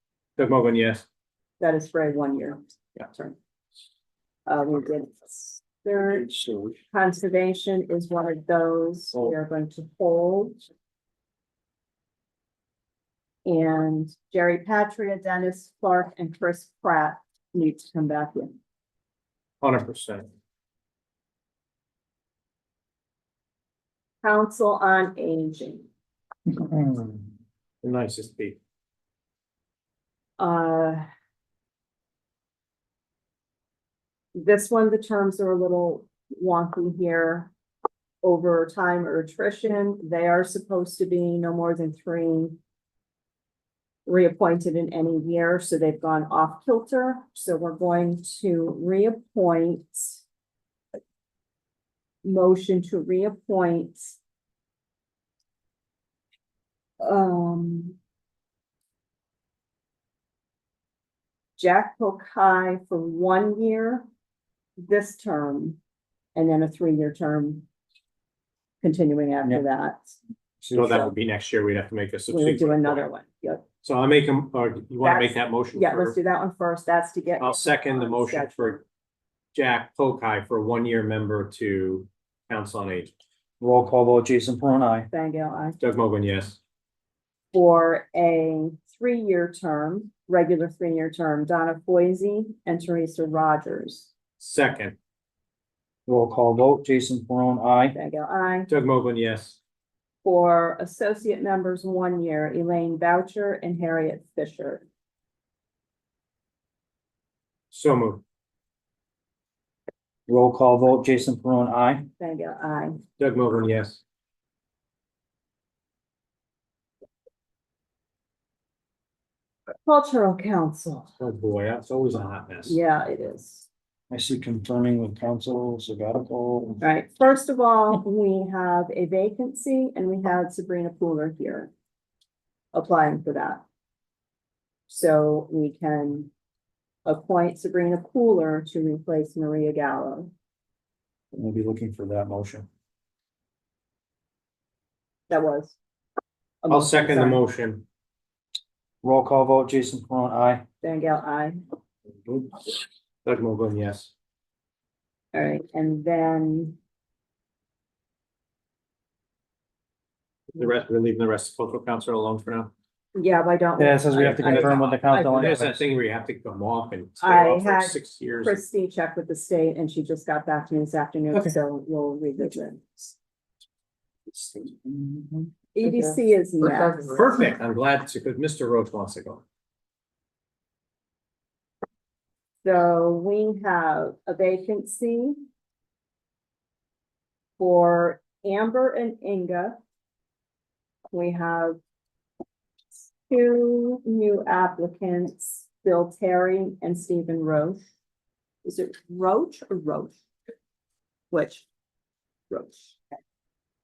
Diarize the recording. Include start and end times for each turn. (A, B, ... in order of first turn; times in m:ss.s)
0:00.4-0:01.0 A
0:01.6-0:03.4 B
0:04.5-0:06.3 B
0:06.3-0:06.7 C
0:06.9-0:10.6 B
0:13.4-0:18.6 B
0:19.6-0:20.3 A
0:24.2-0:25.9 B
0:26.5-0:27.2 C
0:27.8-0:28.6 A
0:30.4-0:31.0 B
0:34.4-0:37.5 B
0:38.2-0:42.6 B
0:44.1-0:50.2 B
0:52.2-0:54.2 B
0:57.0-0:58.0 B
1:01.6-1:04.0 B
1:04.8-1:05.8 B
1:06.4-1:07.7 B
1:08.8-1:10.2 B
1:10.6-1:11.1 C
1:10.8-1:13.0 A
1:12.3-1:13.6 B
1:13.8-1:16.2 A
1:15.0-1:18.8 B
1:17.4-1:18.8 A
1:19.6-1:23.1 A
1:23.6-1:25.1 C
1:25.1-1:25.8 B
1:25.8-1:26.6 A
1:27.5-1:34.1 B
1:34.4-1:35.0 A
1:36.1-1:38.0 C
1:37.9-1:38.7 B
1:38.7-1:39.6 A
1:40.2-1:44.8 B
1:47.7-1:48.2 A
1:50.3-1:52.1 C
1:52.2-1:53.0 B
1:53.2-1:54.0 A
1:59.8-2:01.1 B
2:01.2-2:02.8 A
2:02.7-2:03.7 B
2:04.1-2:06.8 C
2:06.8-2:11.7 B
2:12.7-2:13.6 B
2:14.9-2:16.3 B
2:17.1-2:20.3 B
2:21.3-2:22.7 C
2:25.3-2:25.8 B
2:26.6-2:27.4 B
2:26.7-2:27.8 A
2:29.0-2:30.6 C
2:30.8-2:31.6 B
2:33.2-2:34.1 A
2:35.3-2:36.8 B
2:40.6-2:42.7 A
2:43.2-2:45.6 B
2:43.8-2:45.8 C
2:44.3-2:48.6 A
2:47.2-2:53.1 B
2:54.3-2:55.5 C
2:55.8-2:57.2 B
2:57.0-2:59.4 A
3:02.6-3:05.4 B
3:07.6-3:09.8 B
3:11.1-3:11.8 B
3:13.2-3:17.8 B
3:18.6-3:20.2 B
3:21.3-3:21.7 B
3:22.5-3:23.0 B